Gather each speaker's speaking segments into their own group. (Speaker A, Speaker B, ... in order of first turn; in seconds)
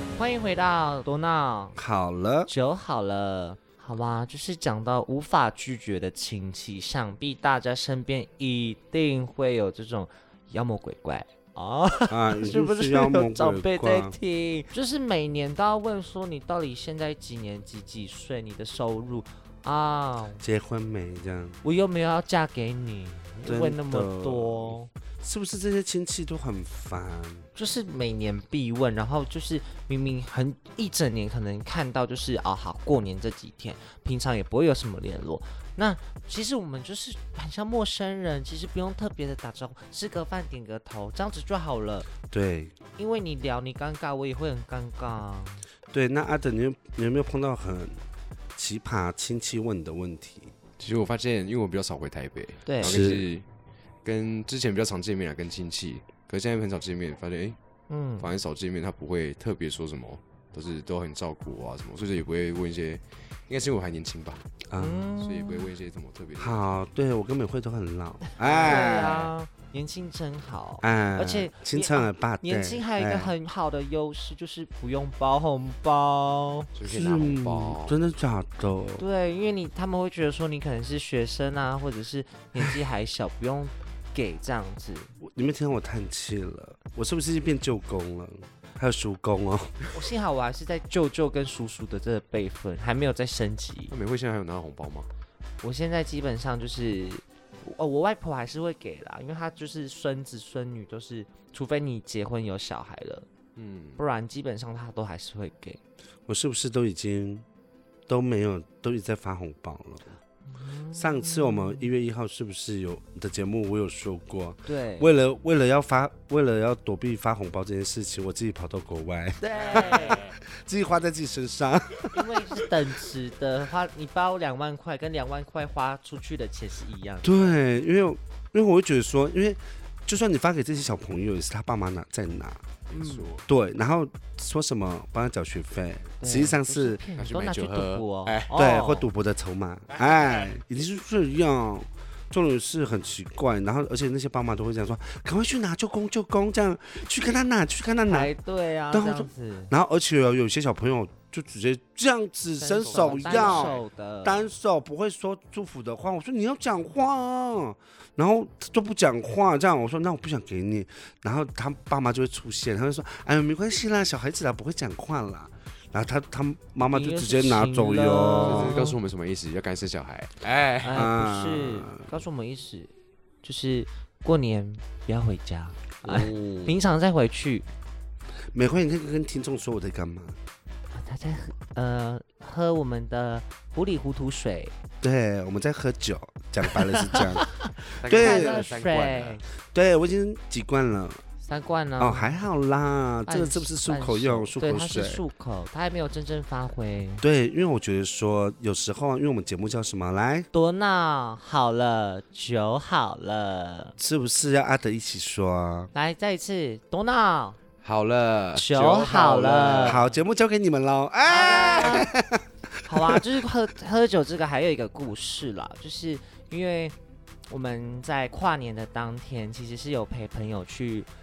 Speaker A: 0.1-1.8, 2.5-20.4, 21.6-24.9, 27.6-42.1, 43.0-45.6, 52.7-53.0, 57.9-58.3, 64.8-65.7, 68.4-76.7, 79.0-85.1, 89.9-93.9, 95.6-103.3, 104.0-105.8, 110.5-111.9, 114.7-115.1, 119.4-120.3, 122.1-127.5, 132.9-133.3, 136.2-139.1, 148.1-149.7, 152.6-154.5, 166.9-169.0, 170.8-172.9, 173.4-177.7, 180.9-184.7, 187.1-189.4, 191.4-192.4, 193.3-197.2, 200.5-204.0, 205.9-207.6, 208.5-210.1, 211.2-212.1, 212.9-216.9, 217.5-221.1
Speaker B: 1.8-2.5, 12.1-14.2, 20.4-21.6, 23.4-27.5, 42.3-42.8, 45.9-48.0, 48.6-50.5, 52.8-53.3, 64.7-65.2, 66.4-69.3, 70.8-73.3, 76.9-79.0, 85.2-89.8, 106.3-107.5, 108.1-110.1, 110.9-122.9, 127.2-132.6, 133.5-137.0, 138.5-148.3, 148.9-168.8, 170.9-172.1, 176.1-176.8, 178.5-180.4, 185.0-188.7, 189.7-191.2, 192.0-195.2, 197.2-200.5, 204.0-205.9, 209.8-213.3
Speaker C: 50.8-53.5, 54.0-57.6, 58.2-64.5, 65.2-66.7, 68.5-68.9, 76.8-78.0, 93.9-95.1, 103.6-104.0, 132.9-133.5, 137.2-138.5, 152.8-153.8, 168.4-171.1, 188.0-189.4, 207.8-210.0